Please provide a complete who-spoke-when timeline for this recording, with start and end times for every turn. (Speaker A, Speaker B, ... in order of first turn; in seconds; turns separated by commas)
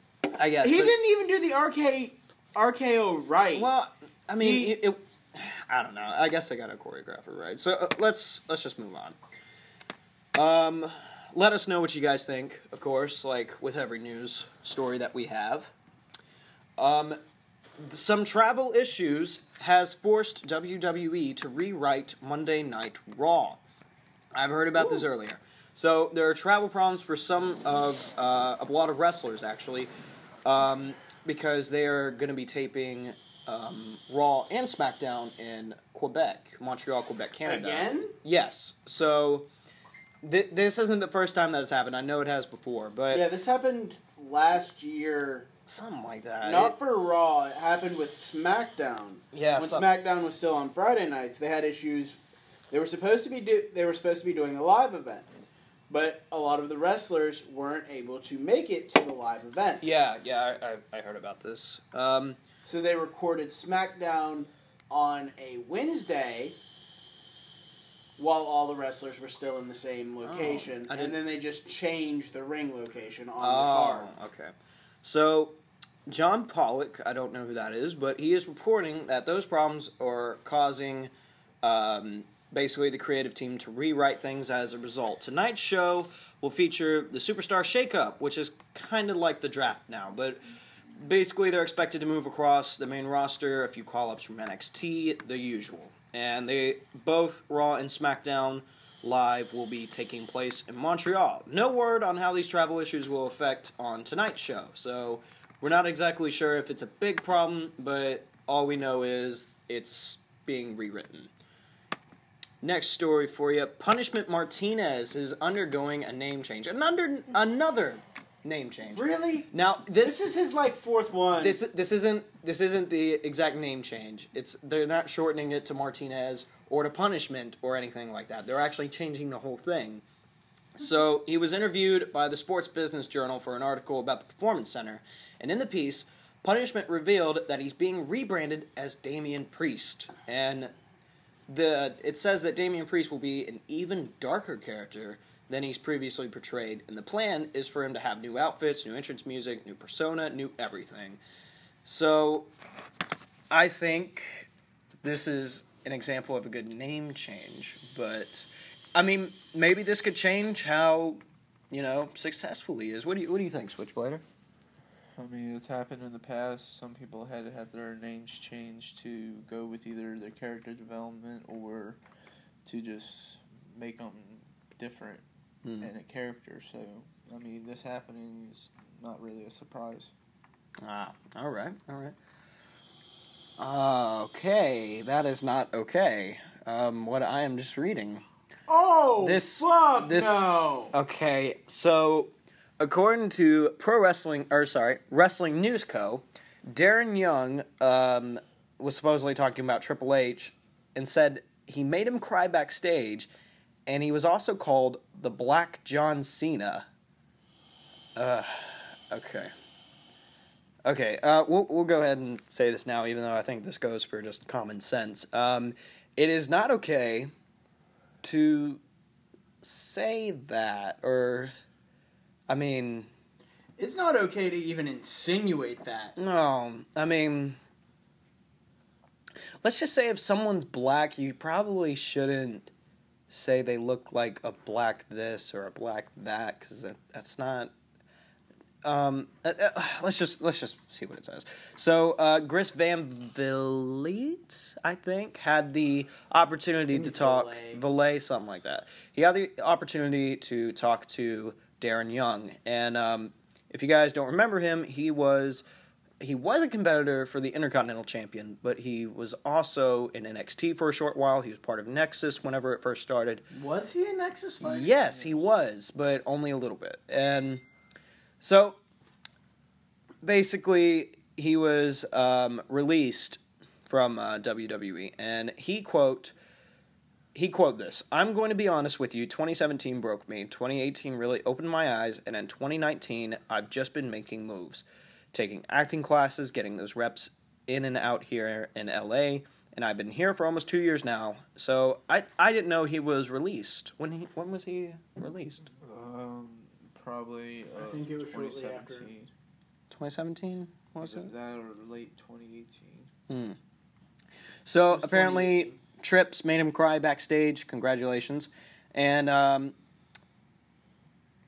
Speaker A: 0.3-0.9, Speaker B: 0.6-3.7, Speaker A: 3.5-9.2, Speaker B: 4.4-4.7, Speaker A: 10.3-15.7, Speaker A: 16.8-17.2, Speaker A: 17.8-23.6, Speaker A: 24.4-29.9, Speaker B: 24.8-25.0, Speaker A: 30.4-39.5, Speaker B: 37.5-38.1, Speaker A: 40.2-43.2, Speaker B: 43.1-45.5, Speaker A: 45.7-46.8, Speaker B: 46.4-52.2, Speaker A: 49.3-49.9, Speaker B: 52.7-55.3, Speaker B: 55.9-59.8, Speaker A: 59.8-62.4, Speaker B: 62.6-66.6, Speaker B: 68.2-74.1, Speaker A: 70.2-71.2, Speaker A: 73.4-74.5, Speaker A: 75.0-81.1, Speaker A: 81.6-90.4, Speaker A: 91.0-111.3, Speaker A: 112.6-120.2, Speaker B: 119.0-121.6, Speaker A: 121.4-130.0, Speaker A: 130.8-140.7, Speaker A: 141.5-151.2, Speaker A: 151.8-152.5, Speaker A: 153.5-154.5, Speaker A: 155.0-164.2, Speaker C: 165.2-172.0, Speaker C: 172.7-175.2, Speaker A: 175.6-175.9, Speaker C: 175.8-180.1, Speaker A: 180.8-182.2, Speaker A: 183.6-188.2, Speaker B: 188.7-190.9, Speaker A: 189.2-203.3, Speaker A: 203.9-206.9, Speaker A: 208.2-209.5, Speaker A: 210.8-217.3, Speaker A: 218.2-218.8, Speaker A: 219.6-221.5, Speaker A: 222.5-223.1, Speaker B: 223.8-226.2, Speaker A: 226.2-227.6, Speaker A: 229.6-232.7, Speaker A: 233.3-237.7, Speaker A: 238.8-255.7, Speaker B: 246.9-247.8, Speaker A: 256.2-263.4, Speaker B: 263.5-264.9, Speaker A: 264.6-267.6, Speaker C: 265.0-265.5, Speaker A: 268.4-268.8, Speaker A: 270.2-276.3, Speaker A: 277.4-295.7, Speaker C: 295.8-299.3, Speaker B: 297.8-299.1, Speaker A: 299.9-301.3, Speaker C: 301.0-303.1, Speaker A: 303.3-303.6, Speaker A: 304.7-309.8, Speaker B: 304.9-305.8